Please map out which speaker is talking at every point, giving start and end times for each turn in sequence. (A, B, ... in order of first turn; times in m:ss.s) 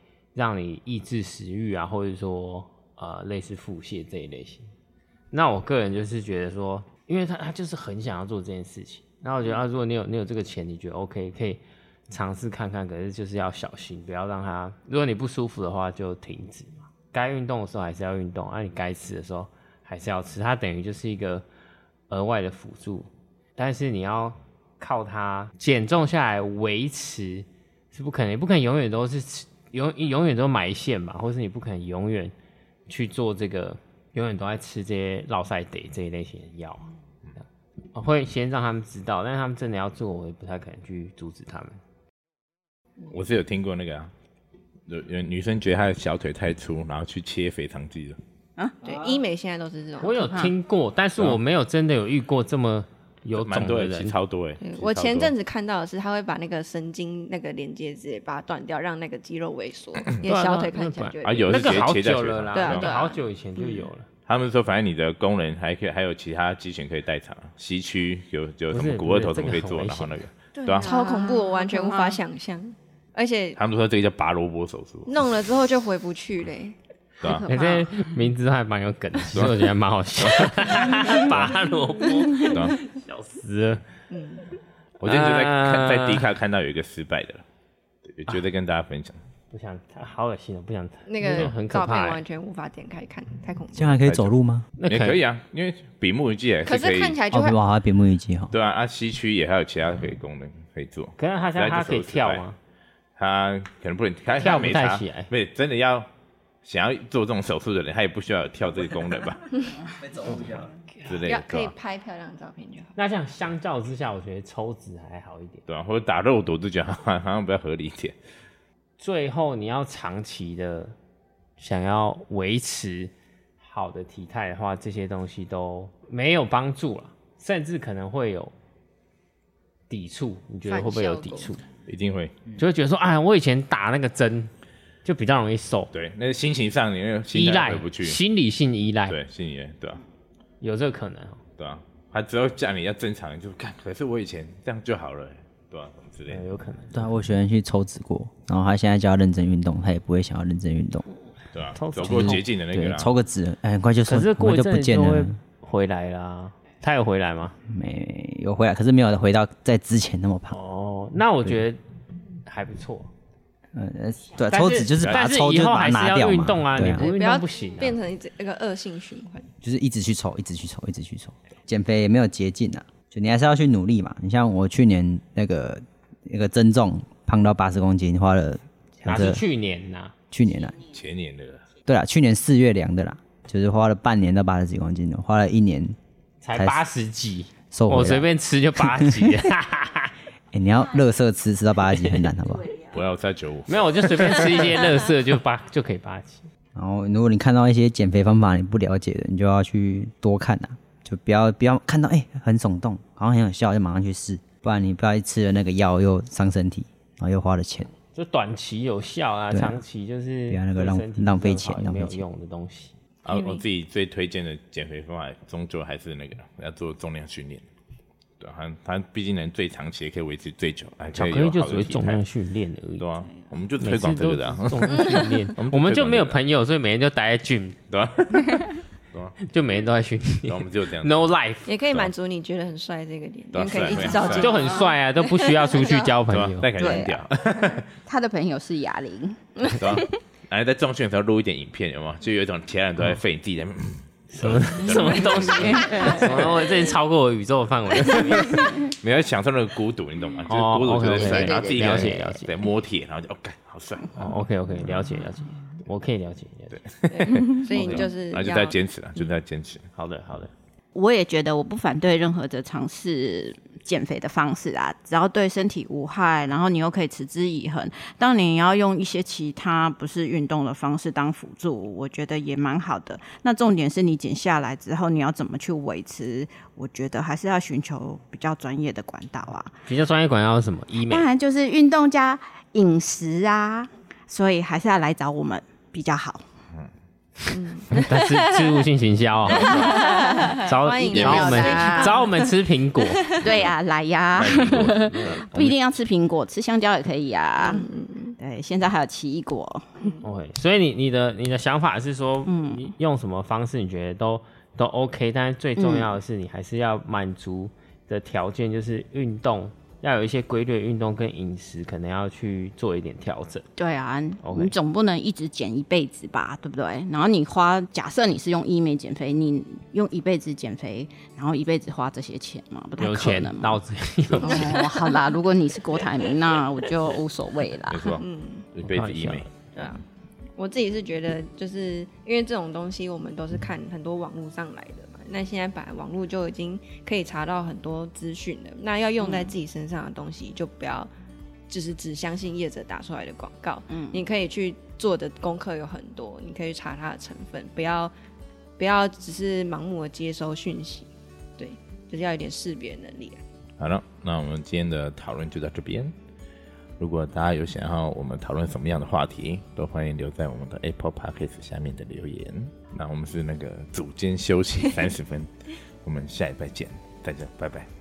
0:00.4-0:04.7 A
0:05.3-0:21.4 A
0:22.1-0:32.3 A
0:32.9-0:36.9 A
0:37.9-0:41.8 A
0:43.1-0:44.1 B
0:44.9-0:48.2 B
0:48.8-0:50.3 C
0:50.0-0:54.2 A
0:50.2-0:50.5 D
0:53.4-0:55.3 B
0:54.6-1:01.9 C
1:00.2-1:04.1 A
1:01.2-1:02.9 B
1:02.5-1:03.2 C
1:04.3-1:10.9 B
1:08.7-1:10.3 A
1:10.6-1:12.2 D
1:10.8-1:13.6 C
1:13.6-1:15.3 B
1:15.1-1:16.8 C
1:17.4-1:17.9 D
1:17.4-1:23.8 A
1:19.3-1:21.6 B
1:22.4-1:22.8 B
1:24.1-1:24.5 C
1:25.0-1:27.4 B
1:25.0-1:26.3 A
1:28.1-1:29.2 B
1:29.5-1:32.2 A
1:31.1-1:34.0 C
1:33.7-1:34.7 E
1:34.0-1:34.3 B
1:34.8-1:35.2 A
1:34.9-1:37.2 B
1:36.6-1:37.6 C
1:37.3-1:38.5 E
1:38.5-1:42.4 B
1:41.2-1:42.6 A
1:43.2-1:46.1 B
1:44.4-1:45.3 A
1:46.6-1:49.5 B
1:50.2-1:51.7 B
1:51.3-1:53.0 C
1:53.0-1:55.6 A
1:55.7-1:58.2 B
1:59.0-2:00.9 A
2:01.6-2:08.5 A
2:09.9-2:11.6 A
2:10.7-2:11.5 C
2:11.9-2:12.4 B
2:12.6-2:14.5 A
2:15.0-2:15.9 A
2:15.9-2:18.2 B
2:17.3-2:19.2 A
2:19.1-2:20.0 B
2:20.6-2:21.4 A
2:21.6-2:26.4 B
2:26.3-2:27.1 A
2:26.9-2:31.0 E
2:31.5-2:33.1 B
2:31.8-2:32.4 A
2:32.0-2:35.4 E
2:34.1-2:37.6 A
2:37.7-2:40.6 E
2:40.5-2:41.8 A
2:42.4-2:43.1 A
2:43.7-2:47.1 E
2:44.5-2:48.0 A
2:46.9-2:49.5 C
2:49.6-2:59.4 E
2:59.0-3:00.1 A
3:00.3-3:00.8 E
3:00.9-3:01.6 B
3:01.9-3:06.0 E
3:06.4-3:10.1 A
3:06.5-3:06.8 E
3:07.7-3:08.3 E
3:08.8-3:09.4 E
3:10.5-3:12.8 E
3:12.9-3:14.7 B
3:13.7-3:16.5 A
3:16.8-3:27.9 E
3:28.1-3:33.0 A
3:29.5-3:29.8 E
3:30.5-3:32.2 E
3:33.2-3:37.6 B
3:33.3-3:33.6 C
3:38.4-3:42.2 B
3:41.2-3:43.0 A
3:43.0-3:46.4 B
3:43.8-3:47.8 A
3:44.9-3:45.3 C
3:47.9-3:49.4 B
3:49.5-3:51.7 A
3:50.5-3:51.3 B
3:51.7-3:56.1 C
3:53.5-3:54.7 B
3:54.0-3:56.7 A
3:56.3-3:57.9 B
3:56.8-3:57.2 D
3:56.8-3:57.1 C
3:58.1-3:59.4 D
3:59.6-4:00.1 C
3:59.7-4:06.3 B
4:04.3-4:08.7 A
4:04.9-4:06.9 D
4:08.2-4:08.9 D
4:08.9-4:14.3 B
4:10.5-4:12.5 A
4:11.0-4:12.2 D
4:14.2-4:16.9 A
4:16.8-4:19.9 B
4:17.1-4:18.8 C
4:17.8-4:18.1 A
4:20.0-4:20.5 A
4:21.0-4:39.7 D
4:39.9-4:41.3 A
4:41.0-4:46.4 D
4:47.5-4:48.7 C
4:47.9-4:53.3 A
4:49.5-4:49.9 B
4:49.6-4:50.6 D
4:49.8-4:53.5 C
4:51.1-4:51.9 B
4:51.2-4:52.2 D
4:53.4-5:00.1 D
4:54.4-4:55.8 B
4:57.6-4:58.4 C
5:00.2-5:13.7 A
5:02.4-5:02.8 D
5:05.8-5:06.1 D
5:13.8-5:23.8 D
5:14.4-5:14.8 A
5:23.0-5:24.9 A
5:24.4-5:28.1 D
5:24.4-5:25.3 C
5:27.9-5:28.2 B
5:28.1-5:28.7 C
5:28.8-5:29.5 B
5:28.9-5:29.5 A
5:29.8-5:30.0 C
5:30.6-5:41.1 C
5:39.2-5:39.5 D
5:41.7-5:48.1 C
5:43.9-5:44.2 D
5:48.8-5:53.4 C
5:53.8-5:56.1 B
5:57.0-6:07.9 B